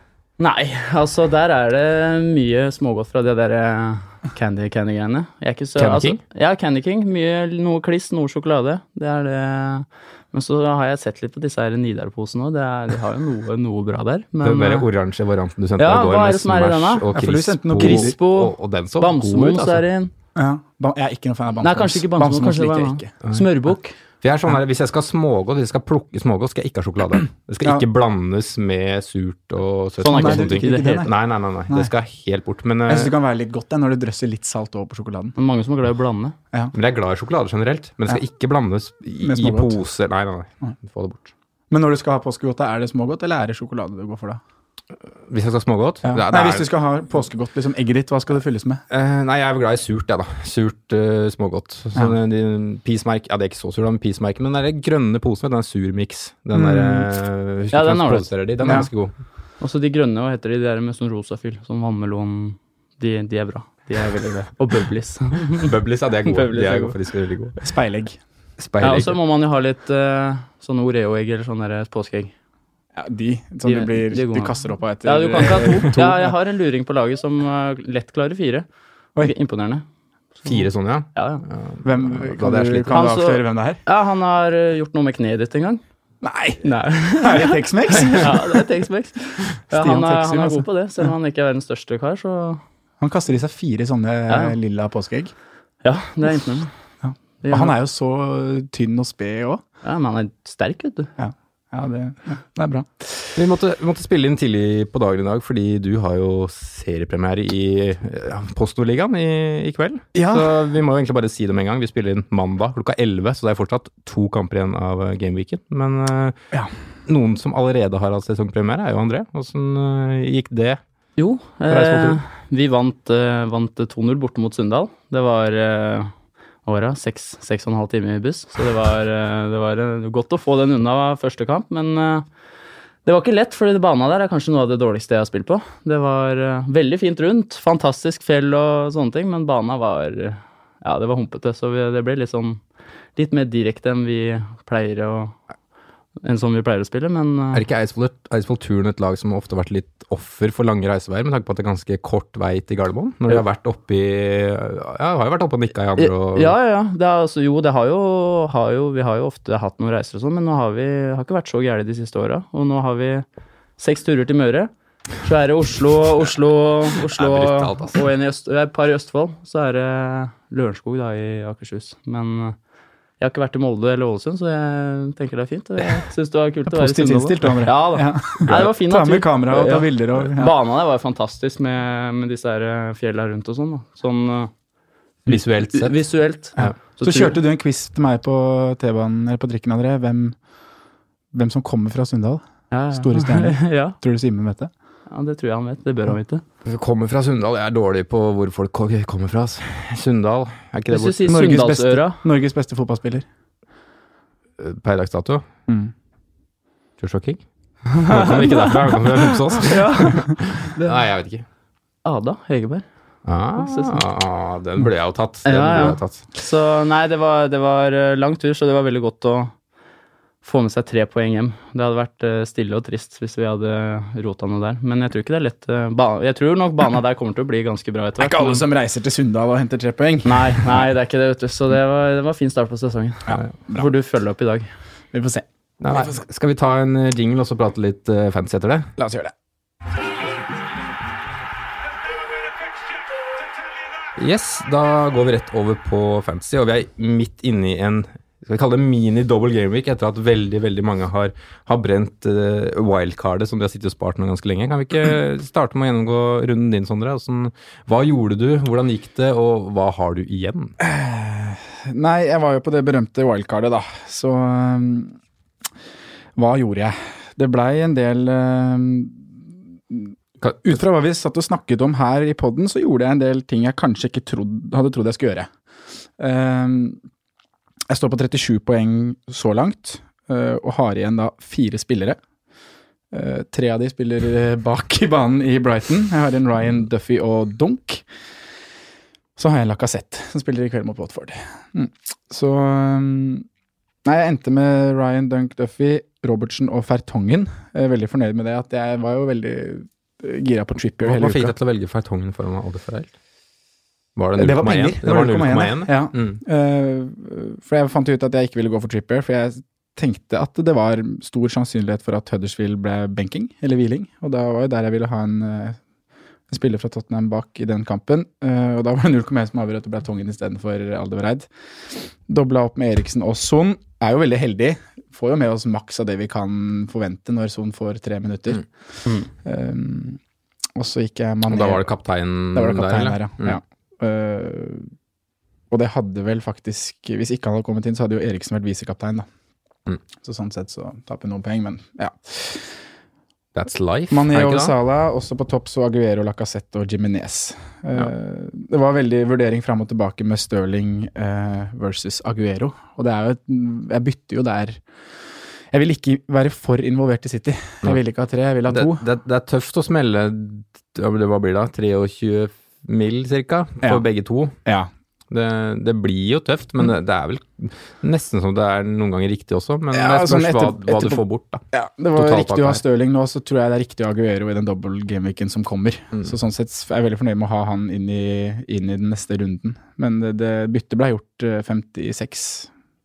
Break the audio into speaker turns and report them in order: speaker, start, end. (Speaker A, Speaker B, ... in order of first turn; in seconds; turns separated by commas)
Speaker A: 0.4-14.9, Speaker B: 5.8-6.2, Speaker B: 14.4-19.8, Speaker A: 15.8-17.1, Speaker C: 17.1-18.2, Speaker A: 17.8-20.1, Speaker C: 20.4-23.1, Speaker A: 21.6-24.0, Speaker B: 24.2-33.1, Speaker A: 30.0-31.1, Speaker C: 30.1-31.1, Speaker C: 32.9-35.4, Speaker A: 35.4-36.4, Speaker B: 36.7-41.3, Speaker C: 39.2-39.8, Speaker C: 41.7-44.4, Speaker B: 45.3-46.7, Speaker C: 46.0-48.8, Speaker B: 48.9-59.1, Speaker C: 56.5-57.1, Speaker A: 57.7-58.9, Speaker C: 58.6-58.9, Speaker A: 59.6-65.7, Speaker B: 65.5-67.6, Speaker A: 66.3-67.0, Speaker C: 67.6-68.2, Speaker B: 68.6-69.2, Speaker A: 68.8-72.3, Speaker C: 73.0-76.3, Speaker A: 73.7-78.7, Speaker A: 79.2-79.8, Speaker B: 80.5-83.1, Speaker A: 81.2-81.4, Speaker C: 81.8-83.8, Speaker A: 82.9-85.8, Speaker C: 86.2-88.7, Speaker A: 86.6-92.6, Speaker C: 89.7-90.7, Speaker C: 93.0-95.3, Speaker A: 94.3-94.6, Speaker A: 95.8-96.7, Speaker C: 97.0-99.6, Speaker A: 97.4-97.7, Speaker A: 99.8-101.1, Speaker C: 101.2-103.2, Speaker B: 103.3-116.4, Speaker C: 110.2-110.5, Speaker B: 117.1-120.8, Speaker A: 121.2-126.1, Speaker B: 121.7-122.2, Speaker A: 126.7-132.3, Speaker A: 133.1-142.6, Speaker A: 143.2-145.4, Speaker A: 146.2-147.6, Speaker B: 147.5-156.6, Speaker A: 156.0-163.2, Speaker A: 163.8-172.6, Speaker B: 167.2-168.0, Speaker A: 173.2-184.5, Speaker C: 176.7-180.6, Speaker B: 185.3-185.9, Speaker A: 185.7-187.3, Speaker C: 186.6-190.4, Speaker C: 191.3-192.4, Speaker A: 192.7-194.0, Speaker C: 192.9-194.7, Speaker A: 195.1-196.4, Speaker B: 196.7-201.3, Speaker A: 200.9-202.2, Speaker C: 201.2-203.2, Speaker B: 204.6-205.4, Speaker C: 205.7-205.9, Speaker B: 207.0-207.4, Speaker B: 207.9-211.4, Speaker A: 208.1-208.9, Speaker A: 209.5-210.9, Speaker A: 212.1-212.8, Speaker B: 213.3-216.2, Speaker A: 213.6-214.0, Speaker A: 215.4-219.5, Speaker A: 220.4-228.6, Speaker C: 228.2-230.9, Speaker A: 230.2-234.7, Speaker C: 233.3-233.8, Speaker C: 235.1-236.1, Speaker B: 235.8-238.9, Speaker C: 239.0-239.3, Speaker B: 244.2-260.7, Speaker C: 260.8-265.2, Speaker C: 266.4-269.3, Speaker C: 269.9-275.5, Speaker B: 270.4-270.7, Speaker C: 276.2-277.0, Speaker C: 277.9-282.2, Speaker C: 283.1-288.0, Speaker C: 289.4-293.5, Speaker C: 294.1-301.5, Speaker B: 301.0-303.1, Speaker B: 304.2-306.4, Speaker C: 304.4-315.8, Speaker C: 316.5-328.6, Speaker C: 329.4-330.2, Speaker C: 330.8-331.8, Speaker B: 331.5-333.6, Speaker C: 332.5-334.9, Speaker C: 335.7-339.3, Speaker C: 340.0-342.7, Speaker B: 343.6-344.7, Speaker C: 344.1-354.8, Speaker C: 355.7-359.0, Speaker B: 358.7-364.6, Speaker B: 365.3-371.6, Speaker C: 369.9-382.7, Speaker B: 372.1-372.8